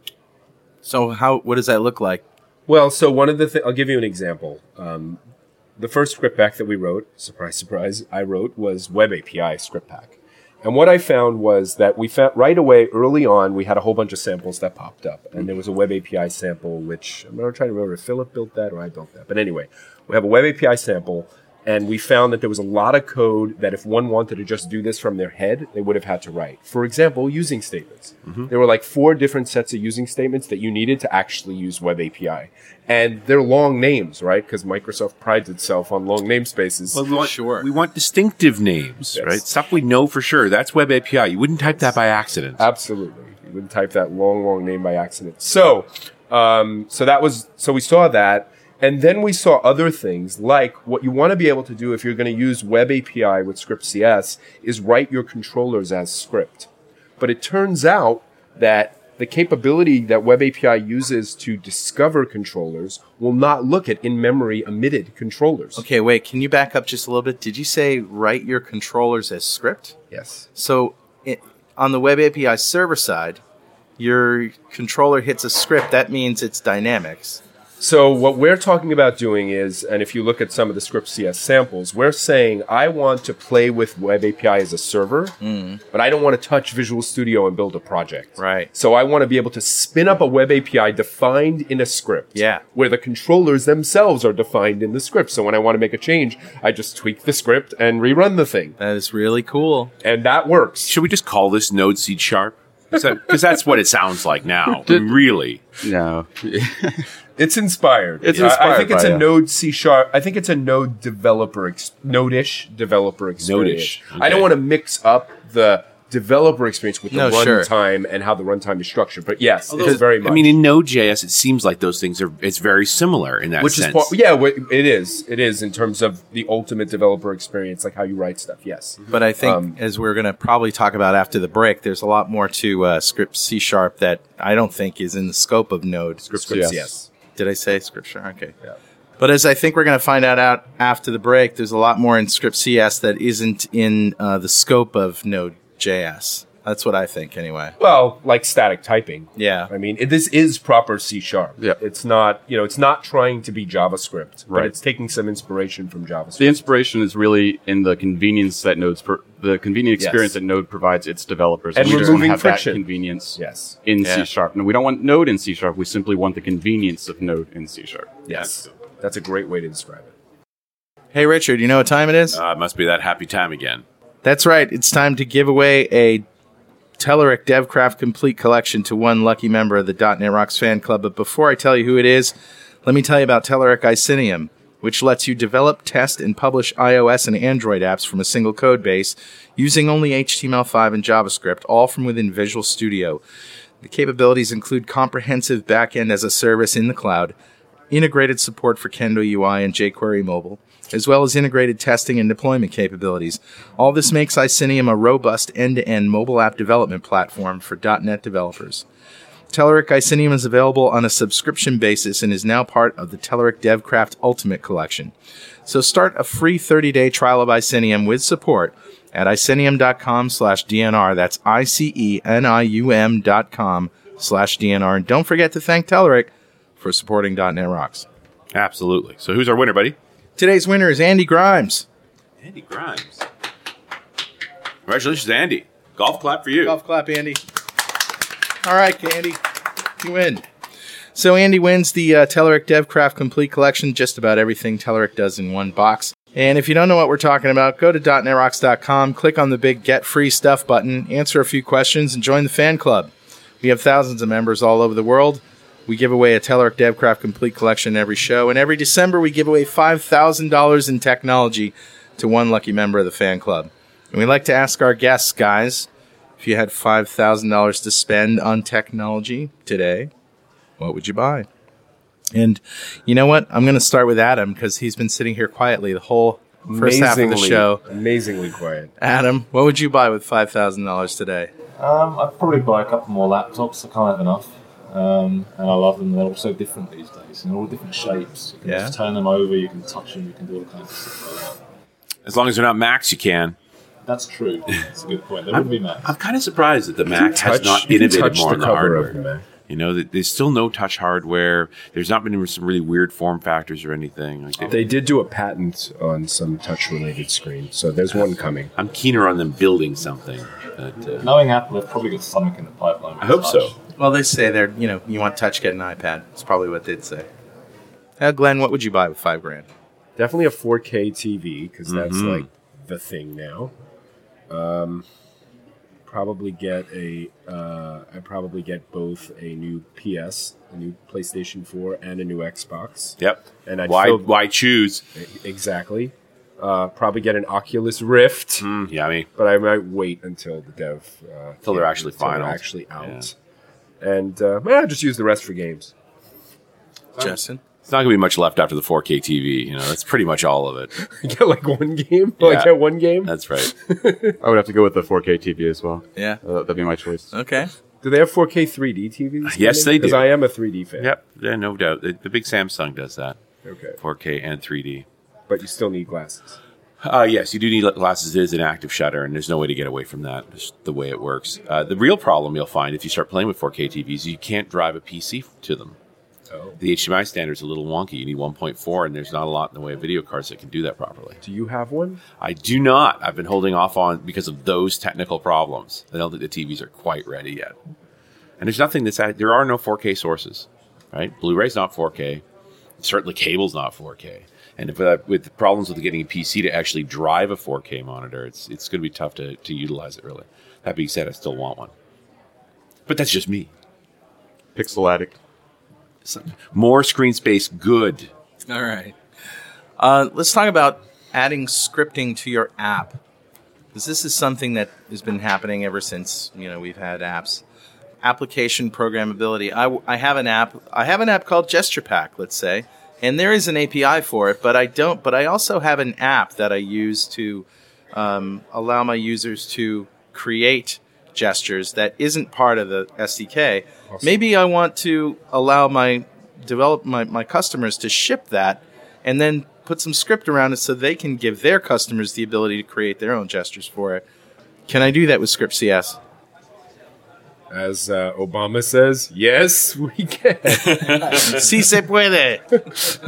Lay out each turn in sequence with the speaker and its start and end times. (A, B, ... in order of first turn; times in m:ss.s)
0:00.8-0:02.2 A
0:02.7-0:05.2 B
0:05.8-0:37.0 B
0:36.9-0:42.6 C
0:37.2-0:37.7 A
0:39.1-0:39.4 B
0:42.6-1:05.8 B
1:05.8-1:09.9 A
1:10.1-1:10.4 B
1:10.5-1:13.4 A
1:14.0-1:17.4 A
1:17.8-1:25.4 B
1:25.4-1:25.8 A
1:25.9-1:38.8 B
1:28.4-1:28.7 A
1:32.4-1:32.6 A
1:38.8-1:39.9 A
1:40.0-1:40.9 B
1:40.9-1:45.6 C
1:42.9-1:43.4 B
1:44.9-1:45.1 D
1:45.8-1:47.1 D
1:47.4-2:00.6 B
1:48.2-1:49.2 D
1:53.4-1:54.5 C
1:57.1-1:57.7 A
1:59.7-2:00.0 A
1:59.8-2:04.1 C
2:03.6-2:09.8 B
2:09.1-2:16.2 A
2:16.2-2:16.9 D
2:16.3-2:17.1 B
2:17.4-2:18.5 A
2:19.2-2:27.8 A
2:27.8-2:36.6 B
2:29.4-2:29.7 A
2:36.4-2:48.1 D
2:40.0-2:40.3 B
2:41.7-2:42.8 B
2:43.4-2:43.8 B
2:44.0-2:44.3 A
2:48.2-2:50.1 B
2:51.1-2:52.4 A
2:52.3-2:53.8 C
2:54.2-2:56.2 A
2:57.0-3:13.2 A
3:13.8-3:17.4 A
3:17.9-3:28.8 A
3:29.5-3:35.1 A
3:35.7-3:48.1 A
3:48.5-3:50.0 C
3:50.4-3:51.9 A
3:52.4-3:53.2 C
3:54.9-3:56.8 C
3:56.6-3:57.4 A
3:58.6-3:59.4 A
4:00.0-4:00.4 A
4:01.1-4:13.1 A
4:13.6-4:25.9 A
4:26.4-4:30.1 A
4:30.8-4:31.5 A
4:32.3-4:37.8 A
4:36.6-4:38.9 B
4:39.0-4:41.5 A
4:41.8-4:51.6 E
4:48.6-4:48.9 A
4:52.2-4:53.6 C
4:54.0-4:56.1 E
4:55.5-4:59.1 C
4:57.1-4:59.4 B
4:59.7-5:04.9 C
5:04.7-5:08.7 B
5:08.8-5:11.3 C
5:11.1-5:13.8 E
5:13.2-5:13.7 C
5:14.0-5:17.3 A
5:18.2-5:19.7 A
5:20.2-5:23.7 B
5:21.9-5:22.4 C
5:24.5-5:25.0 B
5:26.0-5:34.3 B
5:33.2-5:35.0 C
5:35.1-5:38.7 B
5:38.6-5:39.3 C
5:39.4-5:43.3 B
5:41.6-5:43.3 C
5:44.0-5:45.9 B
5:47.2-5:47.6 A
5:47.8-5:50.9 C
5:51.0-5:54.4 B
5:52.4-5:52.7 C
5:53.2-5:53.7 C
5:54.4-5:57.3 D
5:56.2-5:56.4 A
5:57.3-5:57.7 A
5:58.0-6:01.1 B
5:59.4-6:00.2 C
6:01.0-6:03.4 C
6:03.6-6:04.0 B
6:04.0-6:05.0 C
6:05.5-6:06.6 B
6:07.0-6:16.0 C
6:16.5-6:16.8 B
6:16.8-6:21.4 C
6:21.4-6:22.2 B
6:22.4-6:27.7 C
6:28.6-6:32.4 C
6:33.0-6:41.9 C
6:43.1-6:43.7 C
6:44.7-6:45.4 D
6:46.7-6:48.3 C
6:48.7-6:49.2 A
6:50.0-6:53.2 A
6:53.9-6:57.6 A
6:58.2-7:24.2 A
7:14.1-7:14.4 B
7:24.9-7:26.2 A
7:27.7-7:31.6 B
7:31.3-7:32.8 A